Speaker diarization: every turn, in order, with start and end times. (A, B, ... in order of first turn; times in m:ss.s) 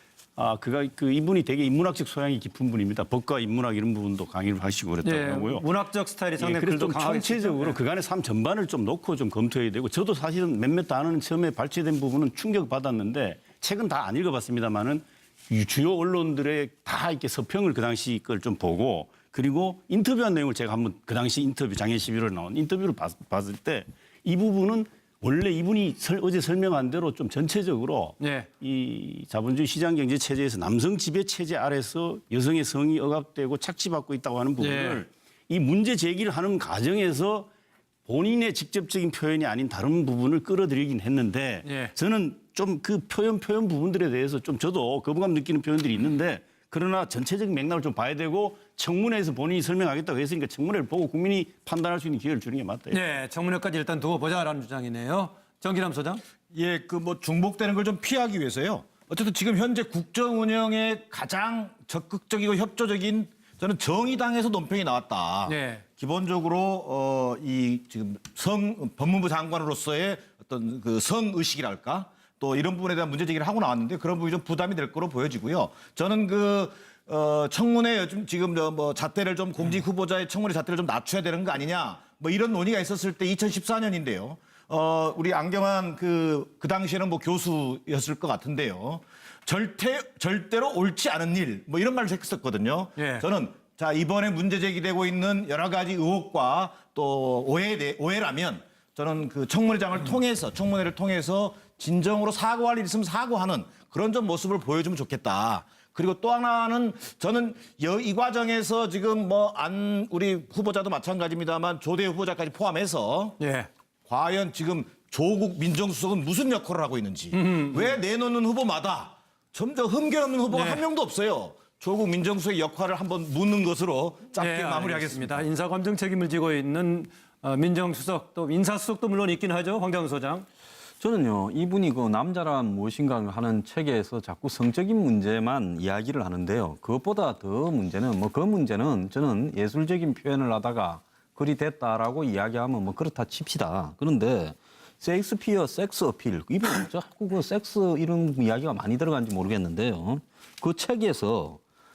0:00.4-0:05.6 A
0:05.0-0:07.8 B
0:06.4-0:37.5 A
0:28.2-0:28.5 B
0:34.6-0:35.0 B
0:38.1-0:53.0 A
0:41.6-0:41.9 B
0:52.9-0:56.2 B
0:56.5-1:53.4 C
1:05.4-1:05.8 B
1:33.0-1:33.3 B
1:53.4-1:53.7 B
1:54.0-2:05.4 C
1:57.3-1:58.0 B
2:00.5-2:00.8 B
2:04.3-2:10.5 B
2:11.0-2:31.6 D